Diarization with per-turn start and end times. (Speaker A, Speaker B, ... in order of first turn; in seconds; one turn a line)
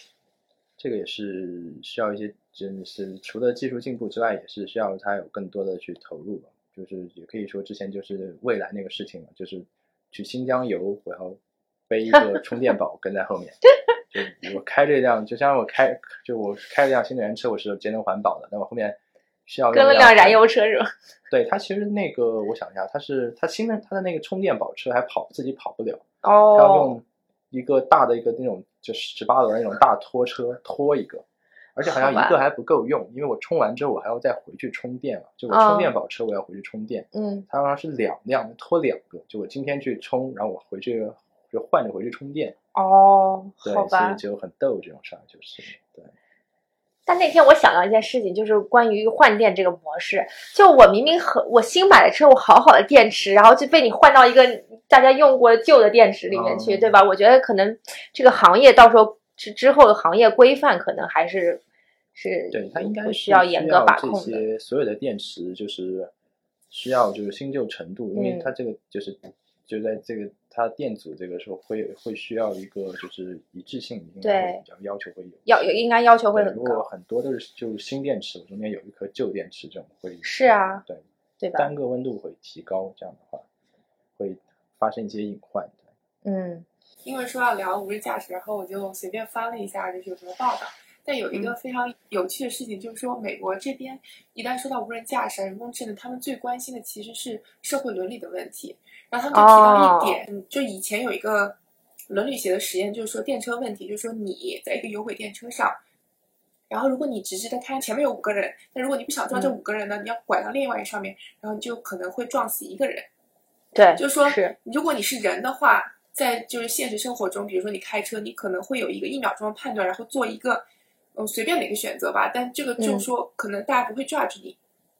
Speaker A: 0.8-13.6
Speaker A: 14.1-20.4
Speaker B: 19.7-20.9
Speaker A: 21.3-31.2
Speaker B: 26.2-26.9
Speaker A: 31.8-42.5
Speaker B: 31.8-32.4
Speaker B: 35.5-35.9
Speaker B: 37.1-37.5
Speaker B: 42.7-44.2
Speaker A: 43.6-46.1
Speaker B: 47.1-61.6
Speaker A: 56.3-56.9
Speaker B: 62.1-64.4
Speaker A: 62.5-66.1
Speaker A: 66.7-81.0
Speaker B: 68.1-68.5
Speaker B: 74.2-74.6
Speaker B: 75.5-76.8
Speaker B: 80.2-80.8
Speaker B: 81.4-81.7
Speaker A: 81.5-83.5
Speaker A: 84.2-85.8
Speaker B: 86.2-86.7
Speaker C: 87.0-101.6
Speaker B: 99.3-100.2
Speaker C: 102.1-105.8
Speaker C: 106.7-113.1
Speaker B: 113.7-114.5
Speaker C: 114.0-124.6
Speaker B: 122.8-123.1